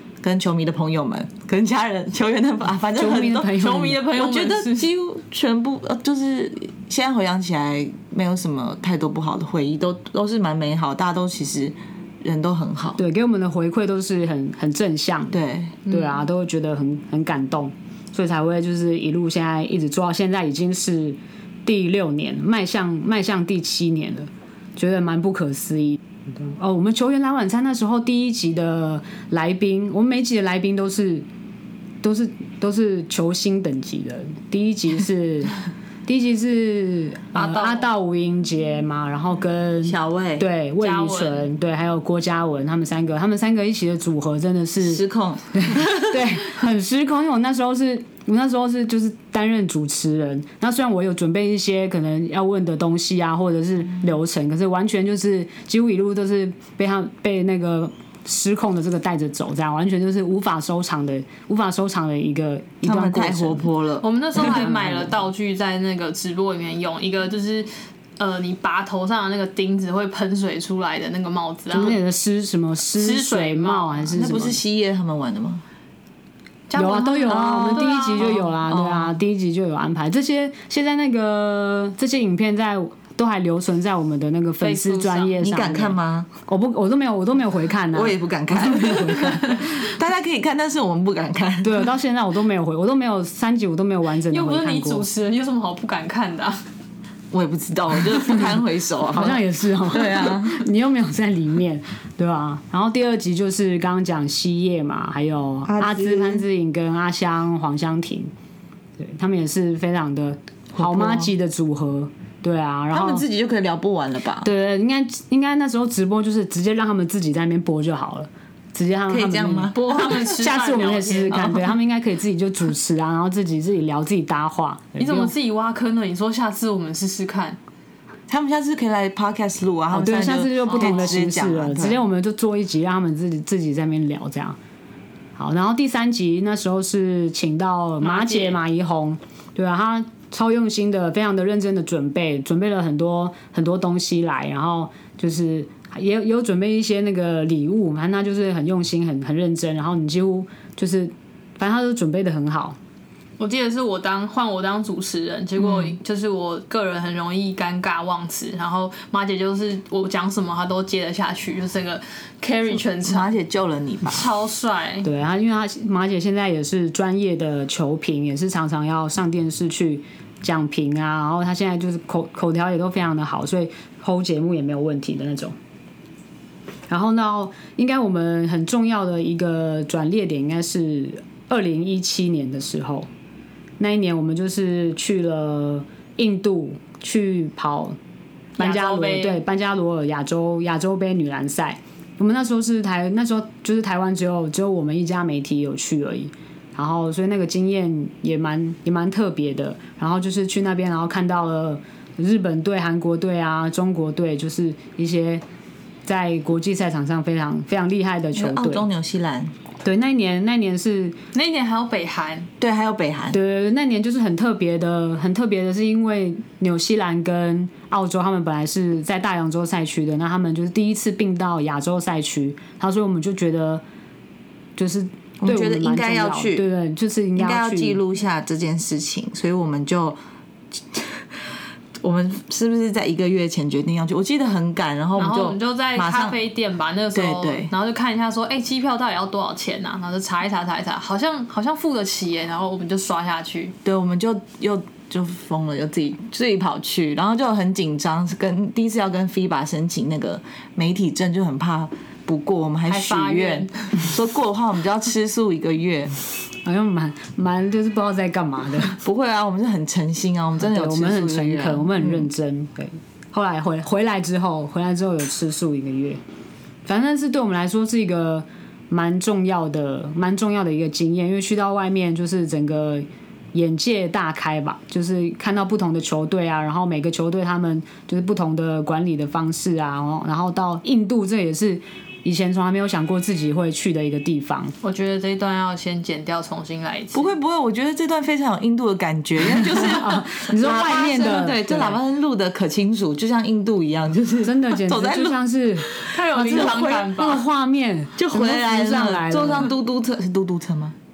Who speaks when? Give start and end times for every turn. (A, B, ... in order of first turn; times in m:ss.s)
0:00.2-0:03.5 A
0:03.0-0:04.0 B
0:03.4-0:04.9 C
0:04.1-0:13.0 A
0:13.0-0:15.3 B
0:15.3-0:15.8 A
0:15.9-0:31.2 B
0:32.0-0:35.5 B
0:36.1-1:03.7 B
0:37.3-0:37.8 C
0:39.8-0:40.4 A
0:40.8-0:41.5 C
0:44.8-0:46.4 A
1:02.8-1:04.8 A
1:04.0-1:12.0 C
1:04.4-1:05.1 B
1:11.7-1:14.6 B
1:12.9-1:14.1 C
1:14.1-1:15.6 A
1:16.7-1:18.4 C
1:16.8-1:29.6 B
1:17.3-1:19.2 A
1:24.6-1:25.4 C
1:25.4-1:26.3 A
1:27.9-1:31.9 A
1:31.6-1:35.1 B
1:34.3-1:36.6 C
1:37.3-1:40.7 A
1:39.1-1:48.3 B
1:45.6-1:46.4 A
1:49.0-1:53.2 B
1:50.7-1:51.3 A
1:52.9-1:54.5 A
1:54.4-2:05.3 B
1:59.1-2:00.3 A
1:59.7-2:01.4 C
2:01.3-2:01.7 A
2:05.0-2:07.6 C
2:08.3-2:12.0 A
2:09.9-2:14.6 B
2:10.7-2:11.2 C
2:15.4-2:32.8 B
2:18.0-2:18.6 C
2:33.4-2:43.3 C
2:35.6-2:36.0 A
2:43.0-2:44.2 A
2:44.1-2:45.1 C
2:45.0-2:55.5 B
2:56.9-3:03.1 B
3:03.8-3:08.0 B
3:08.6-3:09.4 C
3:08.6-3:25.4 B
3:26.0-3:28.8 B
3:28.4-3:29.5 A
3:29.8-3:31.2 B
3:31.3-3:32.5 C
3:32.6-3:33.4 A
3:33.3-3:43.8 B
3:44.8-3:48.0 B
3:45.4-3:46.6 A
3:47.4-3:50.2 A
3:50.7-3:56.4 A
3:55.2-4:03.8 C
3:57.1-3:57.7 A
4:03.8-4:16.1 A
4:12.9-4:14.0 C
4:16.6-4:19.0 B
4:19.0-4:22.3 A
4:20.6-4:26.2 B
4:26.8-4:44.7 B
4:44.8-4:47.3 C
4:47.1-4:57.1 A
4:49.7-4:52.0 B
4:54.4-4:55.9 B
4:56.0-4:57.4 C
4:57.1-4:59.7 B
4:58.2-5:00.9 A